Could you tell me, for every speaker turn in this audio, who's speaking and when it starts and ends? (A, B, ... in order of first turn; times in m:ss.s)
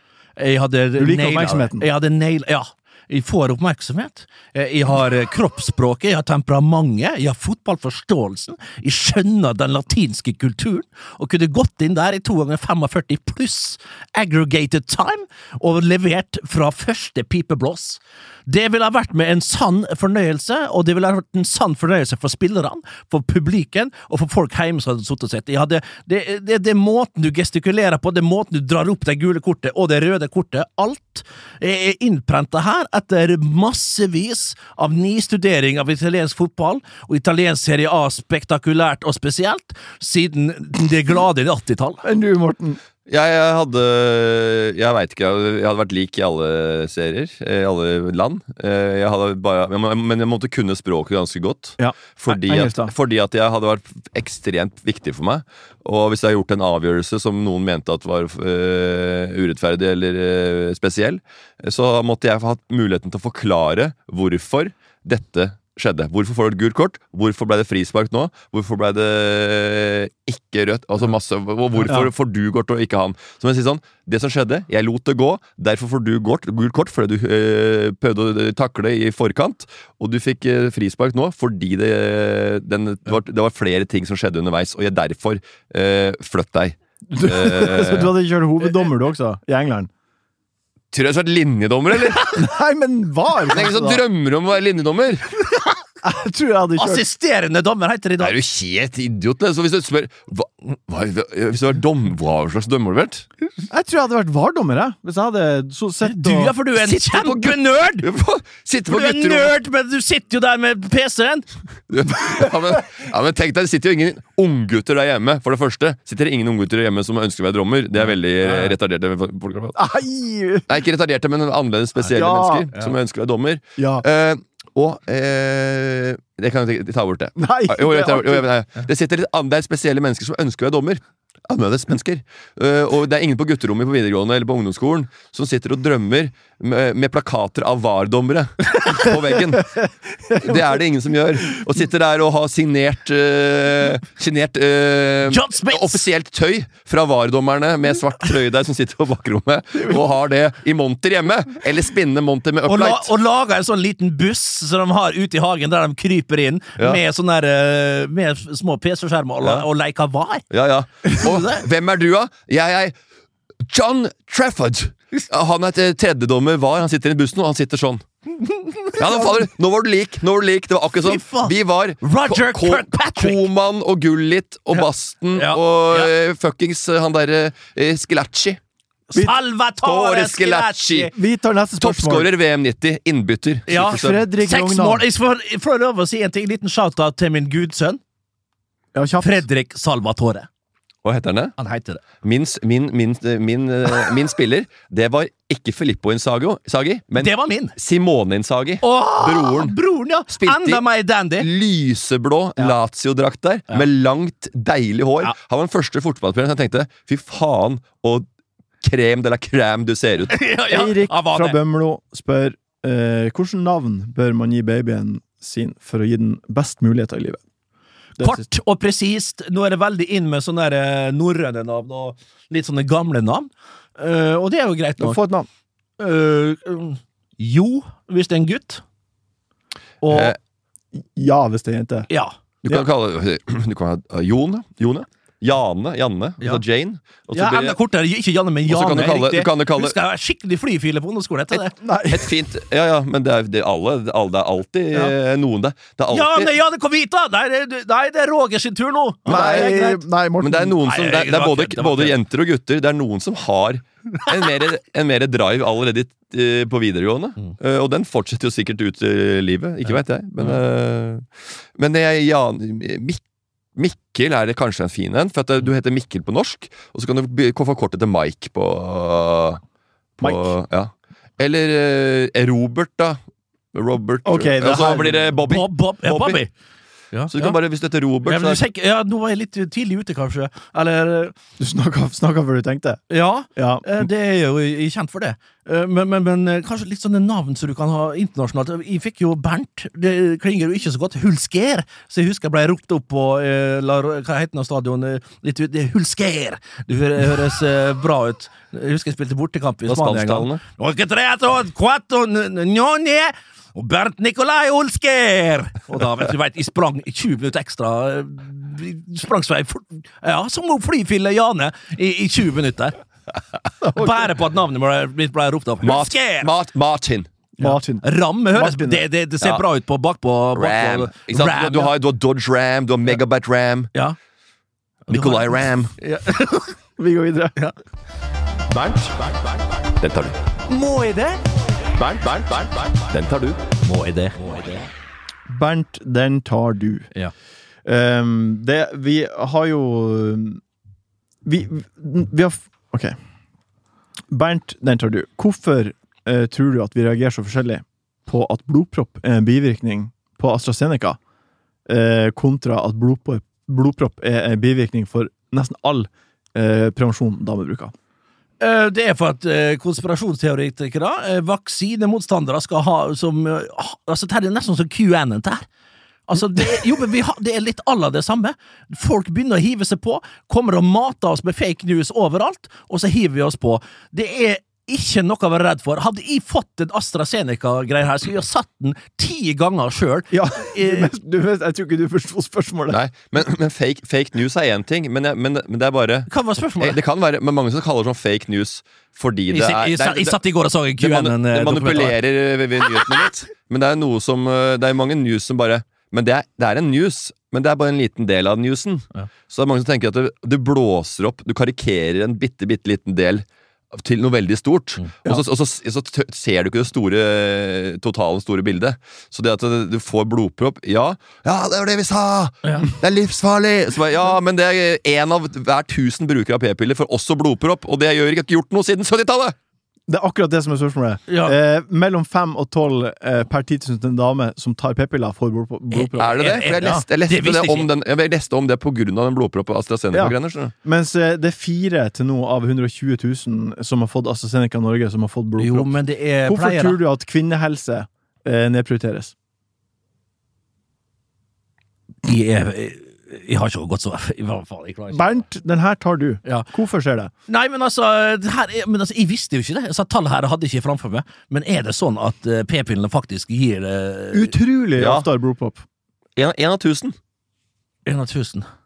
0:00.4-0:42.0 A
0:01.0-0:01.9 B
0:42.0-0:42.8 B
0:43.1-1:28.2 C
0:51.8-0:52.9 B
1:27.1-1:29.9 B
1:30.9-1:32.5 C
1:32.4-1:34.0 B
1:33.5-1:35.2 C
1:36.0-1:37.0 B
1:36.8-1:38.4 A
1:38.2-1:43.3 C
1:43.7-1:46.5 B
1:46.0-1:48.1 A
1:46.8-1:49.6 C
1:48.9-1:51.5 A
1:51.9-1:59.8 C
1:58.4-1:58.8 A
1:59.8-2:00.7 B
2:00.7-2:19.8 C
2:02.1-2:02.7 B
2:03.8-2:04.0 B
2:07.4-2:08.5 B
2:20.3-2:33.1 C
2:25.3-2:26.0 A
2:32.7-2:40.4 A
2:40.5-2:42.9 C
2:41.1-2:41.6 A
2:43.6-2:48.0 C
2:48.9-2:58.6 C
2:51.0-2:53.5 A
2:54.7-2:56.1 A
2:59.1-3:01.2 A
2:59.8-3:01.1 C
3:01.1-3:02.3 B
3:01.8-3:04.3 C
3:03.7-3:08.0 A
3:03.8-3:05.0 B
3:08.9-3:09.4 B
3:09.2-3:10.5 A
3:11.0-3:11.6 C
3:11.6-3:12.0 A
3:12.2-3:19.8 C
3:17.2-3:17.8 A
3:18.8-3:21.5 A
3:20.3-3:20.8 C
3:21.4-3:28.3 C
3:28.8-3:30.4 C
3:30.3-3:31.6 A
3:30.7-3:37.4 B
3:38.2-3:38.4 B
3:38.2-3:45.2 A
3:45.0-3:45.5 B
3:46.0-3:48.8 A
3:50.0-3:50.4 A
3:50.1-3:50.4 C
3:51.2-3:52.1 B
3:52.1-3:52.3 A
3:52.6-3:57.8 C
3:57.3-4:01.8 A
3:58.7-4:00.0 C
4:01.7-4:02.3 B
4:02.1-4:06.5 C
4:06.1-4:10.0 A
4:09.3-4:10.8 B
4:09.3-4:09.8 C
4:10.4-4:23.2 C
4:10.8-4:12.2 A
4:23.8-4:29.6 C
4:30.2-4:33.2 C
4:30.2-4:30.5 B
4:33.7-4:36.4 C
4:34.2-4:35.2 B
4:35.4-4:36.5 A
4:37.1-4:37.6 A
4:37.3-4:38.6 C
4:38.2-4:41.3 A
4:41.6-4:43.0 B
4:43.1-5:13.0 A
4:43.6-4:43.8 B
4:59.8-5:00.6 C
5:13.8-5:14.2 B
5:13.9-5:16.5 A
5:15.8-5:17.3 C
5:17.6-5:19.0 B
5:17.6-5:22.0 A
5:20.5-5:23.9 C
5:25.1-5:26.8 A
5:25.1-5:25.9 C
5:27.0-5:27.6 B
5:28.7-5:30.4 C
5:30.7-5:31.4 A
5:32.0-5:33.6 C
5:33.8-5:34.8 A
5:35.5-5:37.1 B
5:37.9-5:40.6 B
5:41.4-5:43.2 B
5:44.3-5:51.2 B
5:51.9-5:57.9 B
5:58.6-6:05.7 A
6:06.3-6:21.1 A
6:20.3-6:23.0 B
6:22.9-6:30.4 C
6:26.3-6:27.0 A
6:29.5-6:32.2 A
6:31.0-6:59.6 C
7:00.1-7:07.0 B
7:01.3-7:01.6 A
7:05.9-7:07.9 A
7:06.2-7:10.7 C
7:10.1-7:19.3 B
7:15.6-7:17.0 A
7:22.2-7:25.4 A
7:25.1-7:27.3 B
7:27.5-7:34.5 A
7:34.3-7:35.8 B
7:35.0-7:35.3 C
7:36.4-7:37.2 C
7:38.1-7:38.7 A